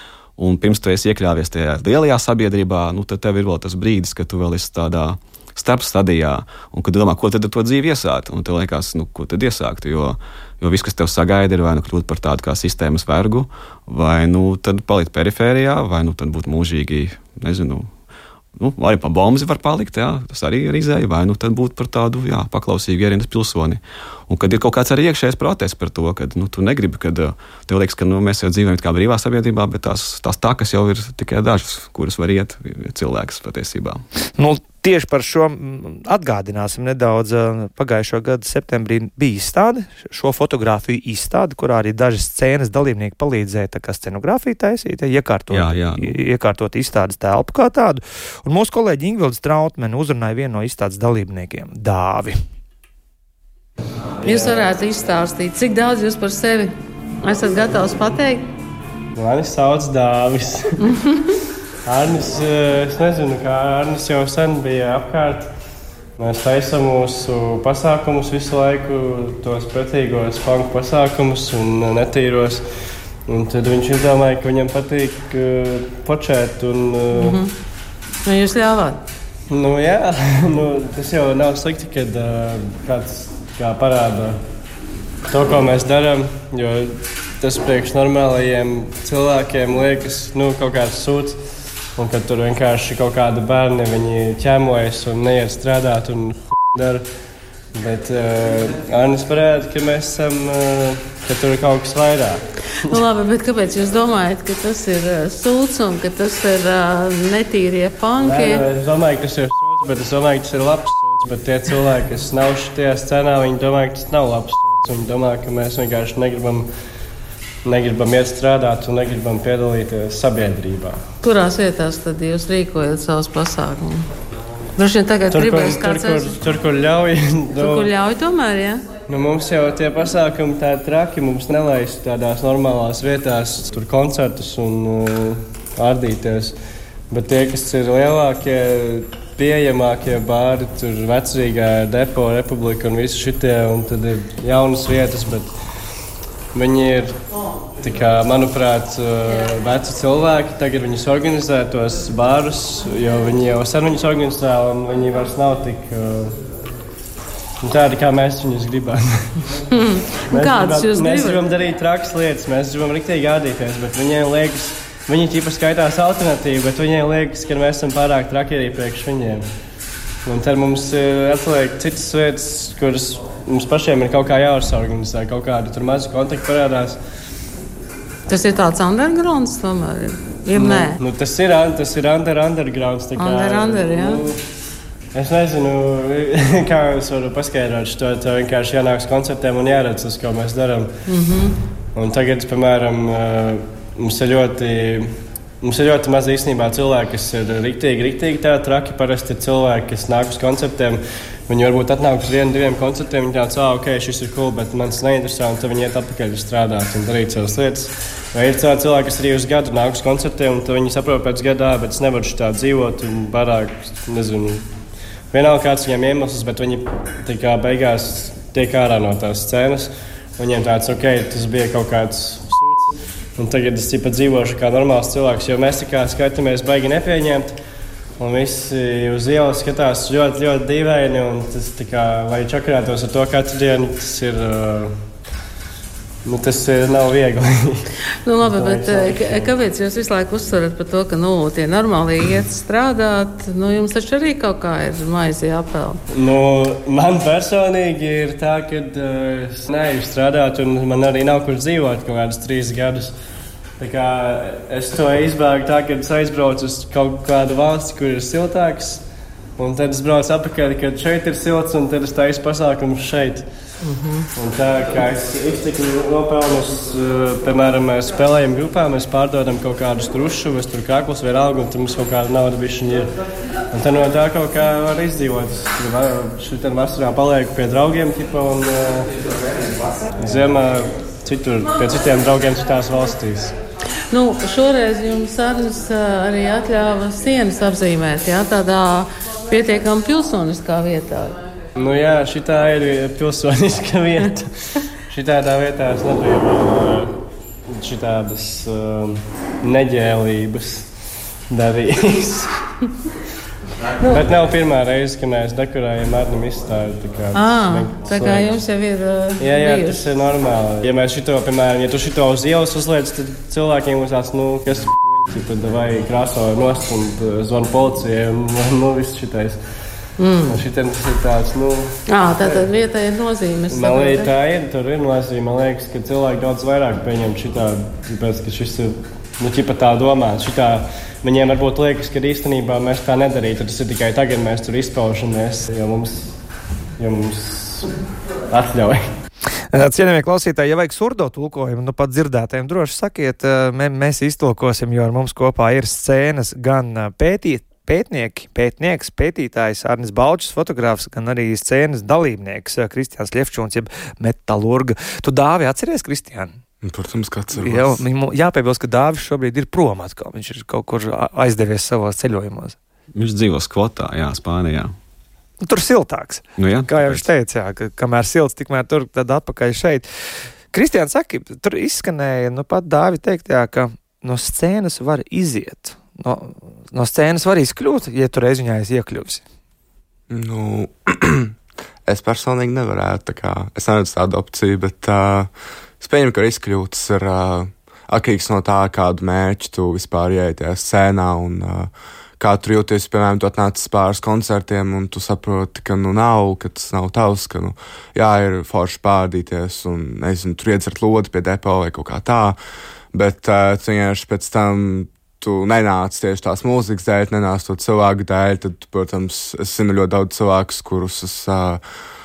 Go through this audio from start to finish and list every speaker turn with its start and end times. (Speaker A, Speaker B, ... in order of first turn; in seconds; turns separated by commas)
Speaker A: 0.4-17.9, Speaker A: 18.6-34.0, Speaker B: 34.4-52.4, Speaker A: 45.5-46.2, Speaker C: 54.2-58.5, Speaker D: 54.3-54.6, Speaker D: 59.1-60.9, Speaker C: 60.9-61.3, Speaker D: 61.8-65.5, Speaker D: 66.2-72.6, Speaker D: 73.3-77.4, Speaker C: 77.1-77.5, Speaker C: 78.2-79.0, Speaker D: 79.5-84.4, Speaker D: 85.3-91.4, Speaker D: 92.0-97.0, Speaker D: 97.7-103.0, Speaker C: 102.8-108.6, Speaker D: 108.2-116.7, Speaker D: 117.6-121.0, Speaker C: 121.2-124.1, Speaker C: 124.8-126.4, Speaker D: 125.3-127.9, Speaker C: 127.5-128.9, Speaker D: 129.1-136.5, Speaker D: 137.1-145.5, Speaker D: 146.5-147.2, Speaker D: 147.8-156.4, Speaker D: 157.6-159.5, Speaker C: 159.7-161.4, Speaker D: 160.3-169.5, Speaker D: 170.2-177.0, Speaker C: 178.3-181.0, Speaker D: 180.5-184.4, Speaker C: 183.2-184.2, Speaker D: 185.1-190.9, Speaker C: 191.1-191.6, Speaker D: 191.9-214.7, Speaker D: 215.3-227.6, Speaker D: 228.2-235.0, Speaker D: 236.2-237.9, Speaker C: 238.2-246.0, Speaker D: 238.4-239.5, Speaker D: 246.1-253.1, Speaker D: 253.8-259.0, Speaker D: 259.6-263.5, Speaker C: 263.8-264.3, Speaker D: 264.3-273.1, Speaker D: 273.7-279.1, Speaker D: 280.1-283.6, Speaker C: 284.1-291.4, Speaker D: 291.8-297.1, Speaker D: 297.7-300.9, Speaker D: 301.5-302.6, Speaker D: 304.0-308.5, Speaker C: 307.3-310.1, Speaker D: 309.4-319.6, Speaker C: 320.2-320.6, Speaker D: 320.5-322.7, Speaker C: 322.1-324.3, Speaker D: 323.7-336.4, Speaker D: 337.0-337.9, Speaker D: 338.5-339.0, Speaker B: 339.7-356.6, Speaker E: 356.8-358.0, Speaker B: 357.6-362.8, Speaker A: 363.1-364.9, Speaker B: 365.6-370.1, Speaker A: 366.6-367.2, Speaker B: 370.7-379.4, Speaker E: 380.3-381.5, Speaker E: 382.1-402.6, Speaker E: 403.1-411.8